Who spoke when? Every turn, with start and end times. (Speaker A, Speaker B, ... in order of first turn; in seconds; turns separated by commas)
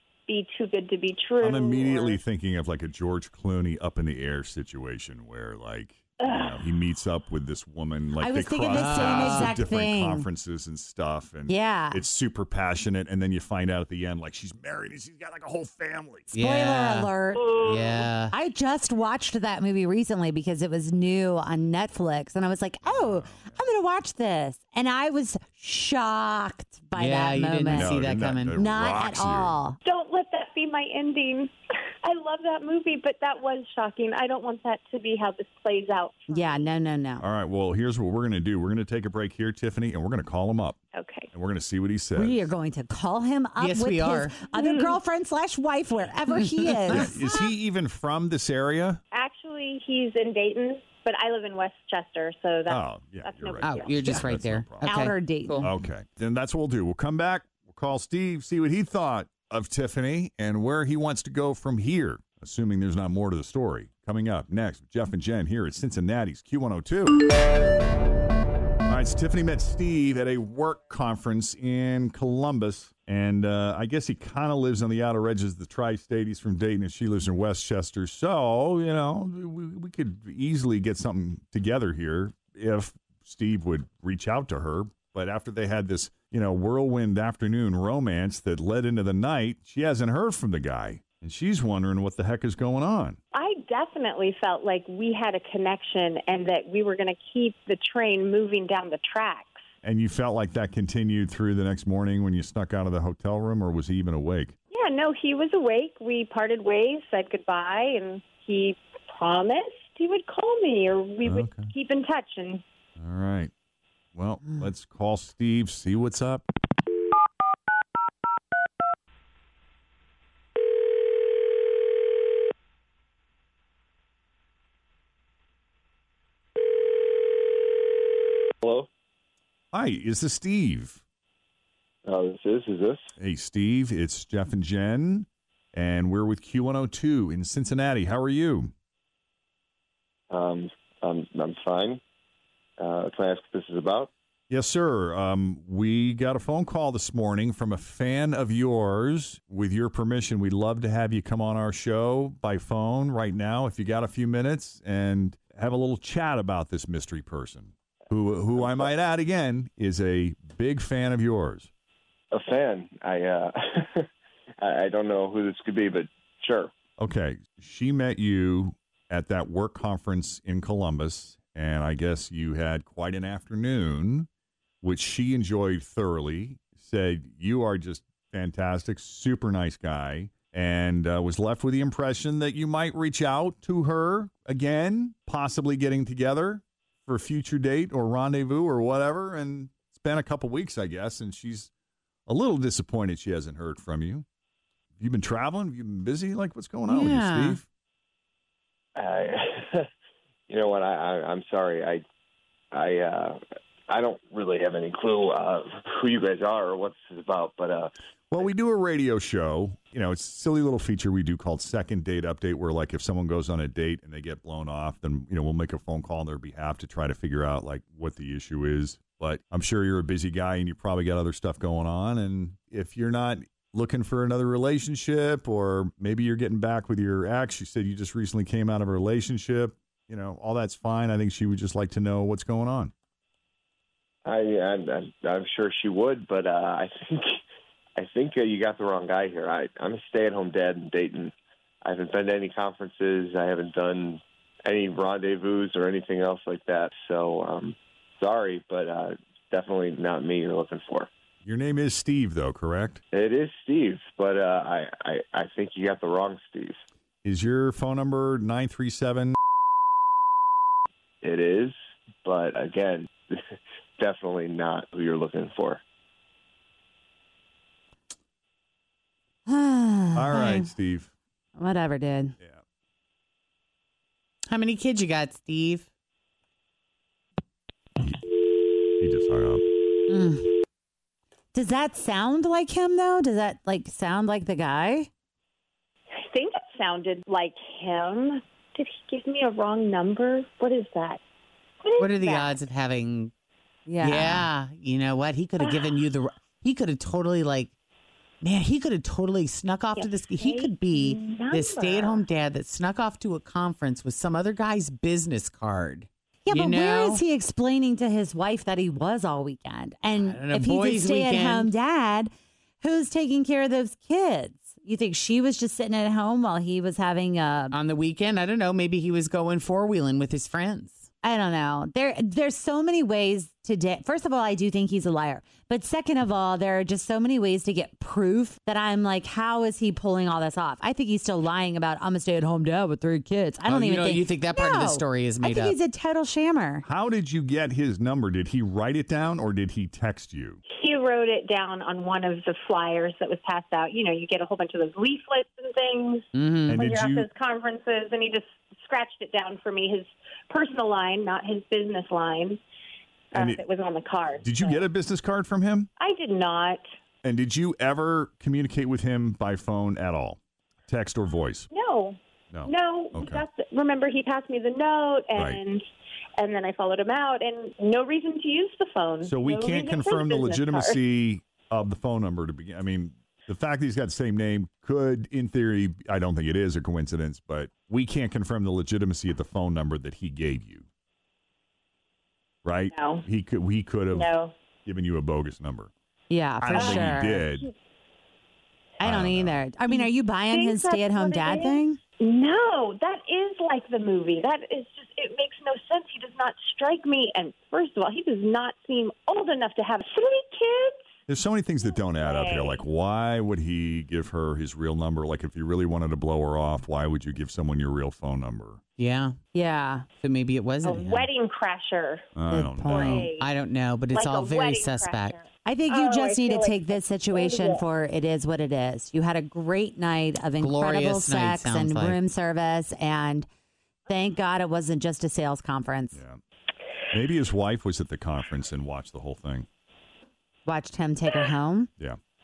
Speaker A: 0.3-2.2, Speaker B: 1.4-16.3, Speaker A: 6.2-6.5, Speaker C: 8.2-10.3, Speaker D: 8.7-9.6, Speaker C: 11.5-12.0, Speaker D: 16.3-18.3, Speaker C: 16.3-17.5, Speaker A: 17.3-18.1, Speaker C: 18.3-28.0, Speaker B: 22.8-23.6, Speaker D: 26.9-28.6, Speaker B: 27.7-29.6, Speaker C: 28.5-29.8, Speaker A: 29.8-31.5, Speaker A: 32.0-36.7, Speaker C: 36.3-37.2, Speaker B: 37.2-40.8, Speaker A: 40.9-41.3, Speaker B: 41.3-42.5, Speaker C: 42.1-47.2, Speaker D: 43.6-44.4, Speaker A: 44.5-44.9, Speaker B: 46.9-49.0, Speaker A: 49.1-54.3, Speaker B: 52.7-54.9, Speaker D: 53.6-55.7, Speaker C: 54.8-55.7, Speaker B: 55.6-67.2, Speaker B: 68.8-93.2, Speaker A: 93.3-99.6, Speaker B: 99.8-104.5, Speaker A: 104.7-112.6, Speaker B: 111.2-111.7, Speaker B: 113.0-113.5, Speaker B: 114.1-116.4, Speaker E: 128.6-128.9, Speaker B: 129.7-131.0, Speaker E: 132.1-133.1, Speaker B: 133.2-138.7, Speaker E: 140.3-142.0, Speaker E: 142.8-144.1, Speaker B: 144.5-161.7, Speaker E: 162.3-164.1, Speaker E: 164.6-166.7, Speaker B: 167.0-174.3, Speaker B: 174.8-191.7, Speaker B: 192.2-194.2, Speaker B: 195.0-197.6, Speaker D: 196.9-197.6, Speaker E: 198.9-199.9, Speaker E: 200.5-202.0, Speaker E: 202.7-207.9, Speaker B: 208.3-232.9, Speaker E: 234.2-237.4, Speaker E: 238.0-241.3, Speaker E: 241.8-251.1, Speaker B: 251.4-253.0, Speaker E: 253.1-256.8, Speaker B: 257.2-259.4, Speaker E: 261.2-263.4, Speaker E: 264.0-265.8, Speaker C: 269.5-270.7, Speaker B: 270.1-271.1, Speaker C: 271.6-272.4, Speaker D: 274.5-275.9, Speaker B: 279.0-279.6, Speaker C: 280.1-280.4, Speaker C: 281.5-285.1, Speaker A: 286.2-291.2, Speaker A: 291.8-292.6, Speaker D: 292.0-293.3, Speaker C: 293.9-294.5, Speaker D: 294.0-297.7, Speaker A: 295.6-296.1, Speaker D: 298.4-307.2, Speaker A: 299.9-302.3, Speaker C: 306.5-312.3, Speaker D: 310.1-311.7, Speaker C: 312.8-317.8, Speaker D: 317.7-321.1, Speaker C: 321.2-336.9, Speaker D: 333.7-335.8, Speaker B: 336.8-340.6, Speaker A: 340.7-352.6, Speaker D: 346.3-346.8, Speaker B: 346.7-347.3, Speaker A: 353.3-354.8, Speaker B: 353.4-353.6, Speaker B: 354.4-355.9, Speaker A: 356.0-356.8, Speaker B: 357.2-361.7, Speaker A: 361.7-365.8, Speaker B: 362.5-363.4, Speaker A: 366.4-371.0, Speaker B: 369.2-380.9, Speaker B: 382.6-384.3, Speaker A: 382.9-383.2, Speaker A: 384.1-384.5, Speaker B: 384.8-385.9, Speaker C: 386.3-387.4, Speaker B: 386.6-387.6, Speaker A: 386.7-387.7, Speaker B: 389.0-389.6, Speaker C: 389.0-392.0, Speaker A: 389.9-401.1, Speaker B: 401.3-408.8, Speaker A: 401.9-402.8, Speaker D: 409.0-409.4, Speaker C: 409.5-410.0, Speaker D: 410.1-411.3, Speaker A: 410.8-412.3, Speaker B: 412.4-413.3, Speaker C: 412.5-413.2, Speaker A: 412.8-413.5, Speaker D: 412.9-415.4, Speaker A: 414.1-416.8, Speaker C: 415.6-423.5, Speaker A: 417.4-417.7, Speaker D: 420.6-422.2, Speaker C: 424.1-426.2, Speaker B: 426.1-426.4, Speaker B: 427.1-429.7, Speaker C: 430.6-431.9